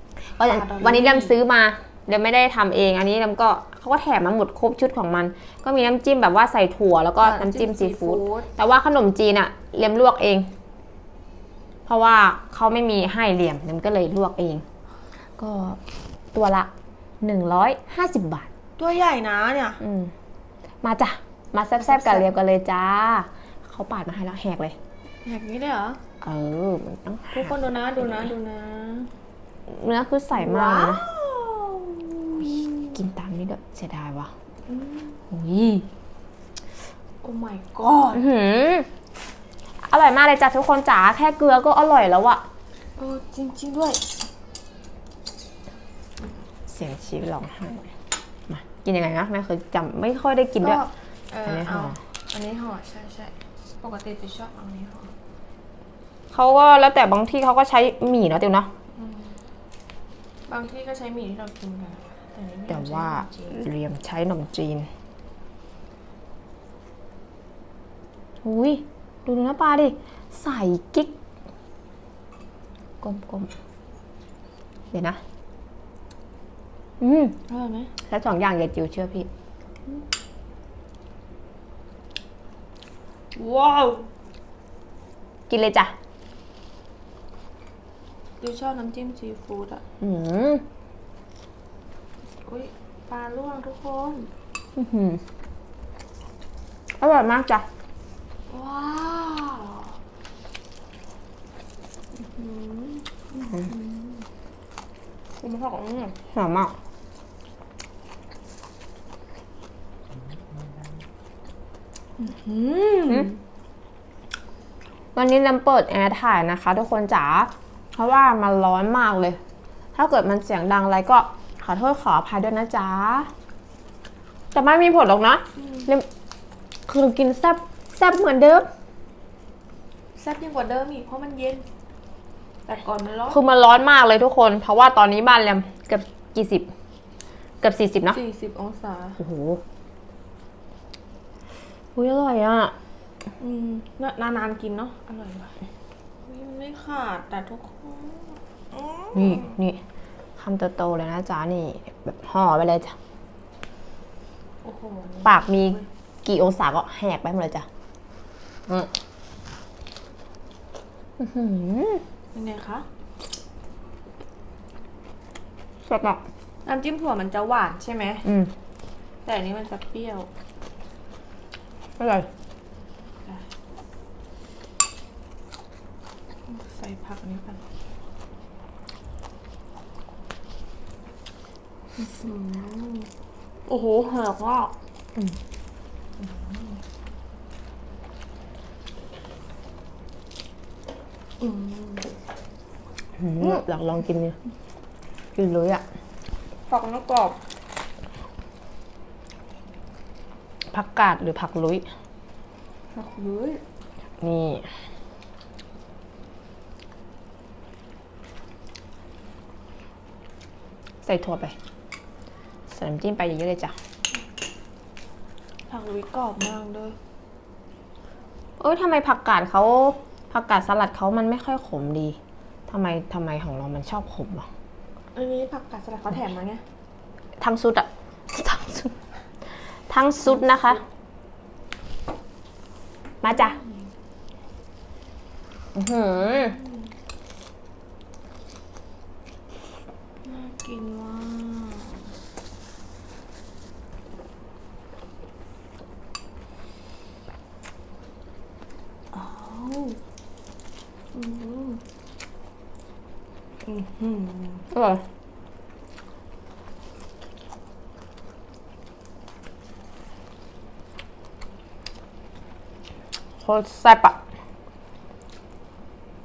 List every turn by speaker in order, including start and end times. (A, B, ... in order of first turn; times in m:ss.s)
0:00.3-0:10.5 A
0:00.4-0:01.4 B
0:07.2-0:08.5 B
0:11.9-0:14.6 A
0:15.2-0:15.8 A
0:16.3-0:16.7 A
0:17.2-0:18.5 A
0:18.8-0:19.8 B
0:19.8-0:20.1 A
0:20.8-0:24.8 A
0:21.8-0:22.3 B
0:25.2-0:26.0 B
0:26.2-0:27.5 A
0:27.3-0:29.1 B
0:29.7-0:31.0 A
0:30.4-0:33.0 B
0:32.9-0:34.3 A
0:34.7-0:35.2 B
0:35.3-0:35.9 A
0:37.2-0:38.2 B
0:38.1-0:38.9 A
0:39.8-0:42.4 A
0:43.0-0:44.1 B
0:46.7-0:47.9 A
0:48.5-0:50.8 A
0:50.6-0:55.1 B
0:51.4-0:52.0 A
0:56.3-0:58.7 A
0:59.0-0:59.4 B
1:00.5-1:03.6 B
1:02.7-1:04.9 A
1:08.4-1:11.1 A
1:13.0-1:13.5 A
1:14.9-1:15.2 A
1:17.0-1:17.4 A
1:17.5-1:17.9 B
1:18.0-1:19.3 A
1:23.4-1:24.1 B
1:25.5-1:25.9 A
1:28.4-1:29.8 B
1:30.0-1:30.6 A
1:32.4-1:34.3 B
1:34.8-1:35.2 A
1:37.0-1:37.7 A
1:38.5-1:40.0 B
1:42.1-1:44.3 B
1:45.4-1:46.2 B
1:46.3-1:46.8 A
1:52.2-1:53.4 B
1:55.2-1:59.4 A
2:00.0-2:03.3 A
2:04.5-2:06.1 A
2:06.9-2:08.7 A
2:10.2-2:11.7 B
2:12.7-2:13.4 B
2:13.3-2:16.7 A
2:17.6-2:18.2 A
2:18.1-2:19.2 B
2:19.2-2:19.6 A
2:22.0-2:22.7 A
2:23.4-2:25.6 B
2:26.2-2:29.5 B
2:29.1-2:29.8 A
2:30.4-2:33.0 A
2:34.6-2:35.9 B
2:35.2-2:37.7 A
2:41.2-2:42.0 A
2:42.3-2:42.9 B
2:45.9-2:46.2 A
2:46.6-2:48.3 B
2:48.3-2:48.5 A
2:49.2-2:50.3 B
2:52.0-2:52.3 A
2:56.5-2:57.6 B
3:02.0-3:03.1 B
3:03.6-3:04.8 B
3:06.2-3:06.8 B
3:11.4-3:12.2 B
3:13.2-3:14.4 A
3:15.4-3:15.8 A
3:16.7-3:17.4 B
3:20.7-3:21.9 A
3:22.9-3:23.6 B
3:24.2-3:24.7 A
3:31.0-3:31.6 A
3:32.7-3:33.8 A
3:35.7-3:37.0 B
3:38.6-3:42.2 A
3:42.7-3:44.5 A
3:45.1-3:46.6 B
3:47.4-3:50.8 A
3:50.5-3:50.8 B
3:53.2-3:53.6 A
3:53.2-3:53.7 B
3:55.8-3:56.6 A
4:00.2-4:02.1 B
4:09.1-4:10.0 B
4:11.1-4:11.8 B
4:13.6-4:14.7 B
4:14.7-4:15.0 A
4:23.4-4:24.2 A